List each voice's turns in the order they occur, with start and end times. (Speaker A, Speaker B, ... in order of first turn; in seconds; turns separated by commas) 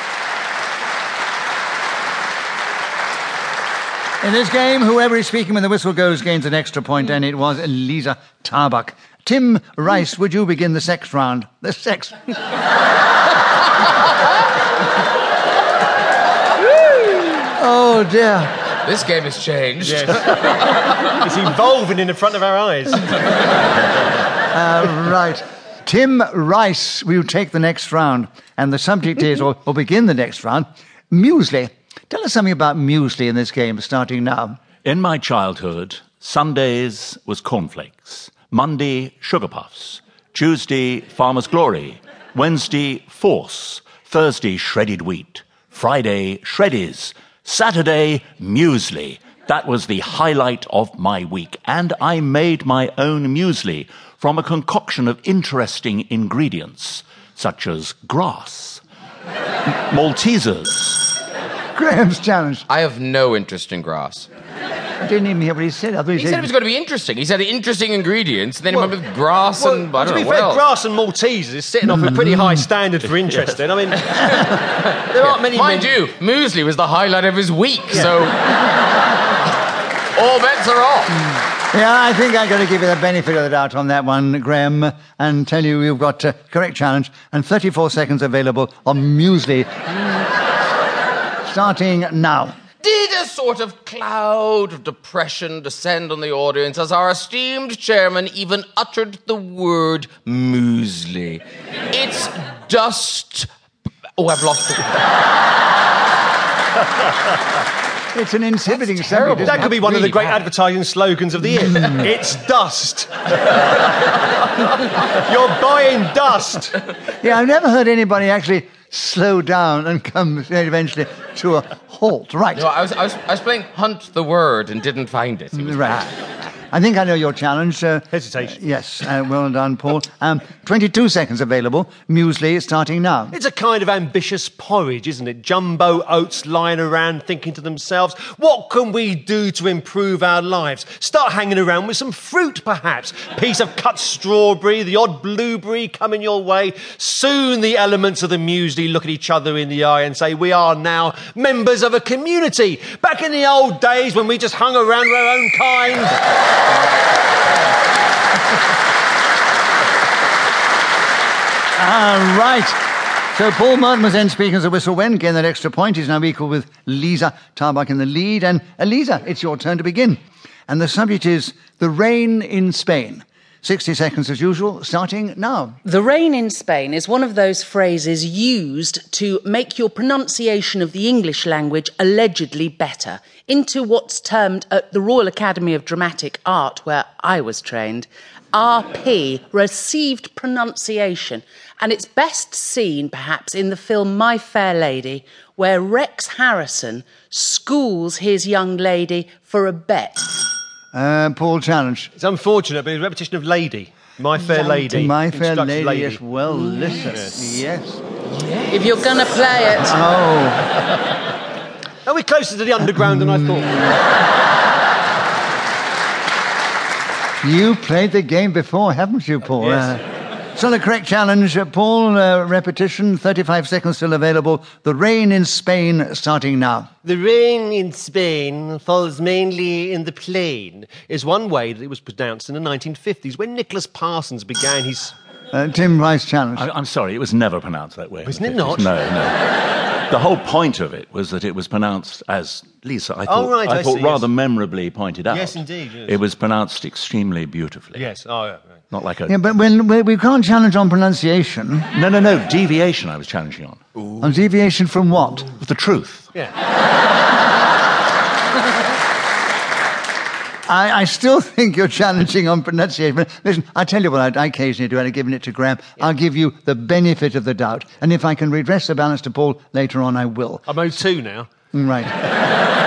Speaker A: 4.2-12.3, Speaker A: 17.4-18.6, Speaker B: 18.8-20.8, Speaker C: 19.8-20.4, Speaker C: 21.1-23.2, Speaker A: 24.5-34.6, Speaker D: 34.8-58.8, Speaker D: 59.6-61.2, Speaker A: 61.7-62.6, Speaker B: 62.7-64.3, Speaker A: 65.0-66.5, Speaker B: 66.1-70.7, Speaker C: 69.6-74.3, Speaker B: 74.4-78.6, Speaker C: 74.9-76.0, Speaker B: 80.1-81.2, Speaker A: 81.7-89.9, Speaker A: 91.5-92.6, Speaker B: 92.8-103.5, Speaker B: 104.2-105.0, Speaker A: 108.1-110.1, Speaker B: 108.8-110.3, Speaker C: 109.5-113.9, Speaker C: 115.1-116.8, Speaker A: 117.2-122.7, Speaker B: 122.5-126.2, Speaker A: 125.5-126.1, Speaker A: 126.7-133.3, Speaker C: 128.1-128.6, Speaker C: 133.3-156.2, Speaker A: 161.8-162.8, Speaker A: 163.3-175.8, Speaker E: 175.8-200.4, Speaker A: 200.9-202.1, Speaker C: 202.2-206.2, Speaker A: 204.6-208.0, Speaker C: 207.1-207.3, Speaker E: 208.7-210.0, Speaker A: 209.8-210.9, Speaker C: 212.0-214.0, Speaker A: 217.4-220.0, Speaker A: 220.5-226.9, Speaker C: 227.0-235.1, Speaker A: 235.5-236.7, Speaker D: 236.6-248.1, Speaker C: 238.2-238.9, Speaker C: 243.2-244.3, Speaker C: 245.3-246.2, Speaker C: 247.9-248.8, Speaker D: 248.9-249.3, Speaker A: 249.3-251.9, Speaker D: 251.9-253.8, Speaker A: 254.2-255.5, Speaker D: 255.5-256.3, Speaker A: 260.7-270.7, Speaker C: 270.7-271.5, Speaker A: 271.7-272.3